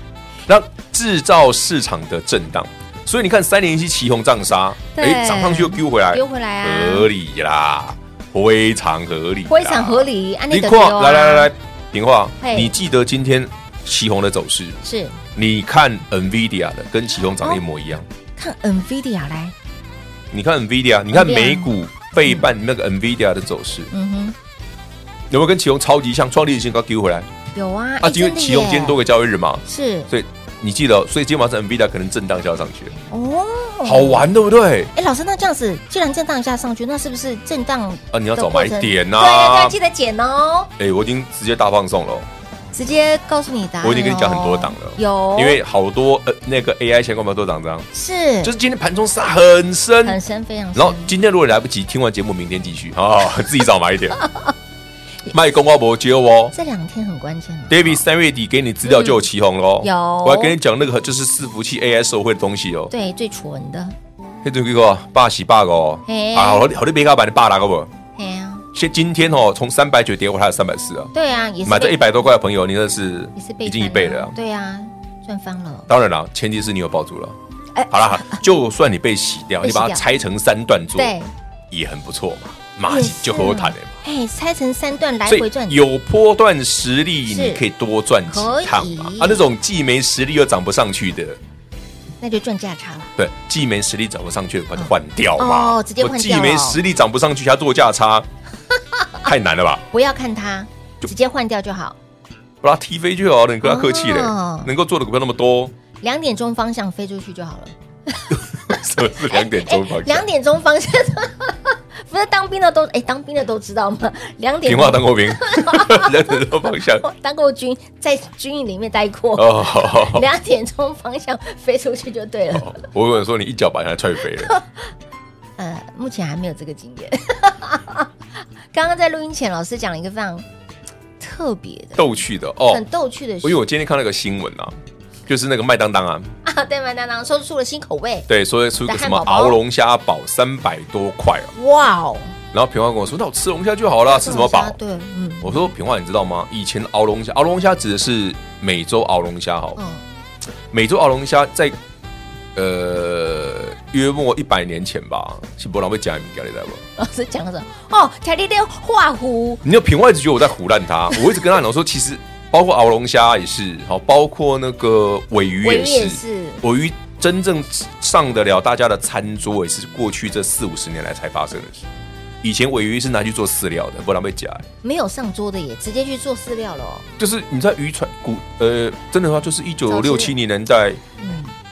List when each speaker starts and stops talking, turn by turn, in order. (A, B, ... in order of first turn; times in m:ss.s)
0:00.5-0:14.8 A
0:04.9-0:07.1 B
0:09.5-0:11.5 B
0:12.4-0:12.7 B
0:14.8-0:15.2 B
0:15.3-0:18.1 A
0:18.4-0:19.5 B
0:20.3-0:23.9 A
0:21.1-0:21.7 B
0:22.2-0:22.5 B
0:23.9-0:24.4 B
0:25.3-0:27.3 A
0:27.5-0:29.0 B
0:28.0-0:33.0 A
0:29.6-0:30.1 B
0:33.1-0:34.3 B
0:33.8-0:34.9 A
0:34.9-0:40.7 B
0:38.1-0:39.8 A
0:40.8-0:42.3 A
0:42.7-0:45.6 B
0:43.8-0:47.9 A
0:47.9-0:48.5 B
0:48.4-0:50.2 A
0:50.0-0:51.1 B
0:50.7-0:54.2 A
0:55.3-0:56.5 A
0:56.5-0:58.0 B
0:57.7-1:02.9 A
0:58.8-0:59.2 B
0:59.8-1:00.6 B
1:02.9-1:03.9 B
1:04.4-1:07.9 A
1:06.0-1:06.7 B
1:08.2-1:08.6 B
1:08.7-1:11.1 A
1:11.1-1:12.2 B
1:11.6-1:14.4 A
1:13.4-1:15.9 B
1:15.9-1:17.4 A
1:17.7-1:18.4 B
1:17.9-1:21.1 A
1:19.6-1:20.0 B
1:20.9-1:21.3 B
1:21.7-1:24.0 A
1:22.9-1:25.8 B
1:25.2-1:31.4 A
1:27.3-1:27.6 B
1:28.3-1:29.4 B
1:32.2-1:33.1 B
1:33.2-1:38.3 A
1:34.8-1:36.8 B
1:39.2-1:39.8 A
1:39.9-1:42.0 B
1:42.6-1:45.7 A
1:43.6-1:44.7 B
1:46.0-1:48.8 B
1:48.3-1:50.3 A
1:49.3-1:56.4 B
1:54.6-1:57.0 A
1:57.0-2:02.8 B
1:59.3-2:00.3 A
2:02.5-2:04.5 A
2:05.6-2:08.1 B
2:08.7-2:10.4 B
2:11.2-2:12.0 B
2:12.0-2:12.8 A
2:12.7-2:13.6 B
2:13.4-2:14.8 A
2:15.3-2:16.3 A
2:16.4-2:18.3 B
2:18.3-2:21.5 A
2:18.8-2:19.6 B
2:21.5-2:22.3 B
2:22.5-2:24.8 A
2:24.0-2:25.7 B
2:25.4-2:29.8 A
2:29.8-2:30.0 B
2:30.7-2:31.8 A
2:32.5-2:36.8 A
2:37.0-2:39.6 B
2:39.6-2:51.9 A
2:45.6-2:46.6 B
2:52.4-2:54.7 A
2:54.8-2:57.1 B
2:57.2-3:01.0 A
2:59.9-3:00.3 B
3:01.2-3:01.5 B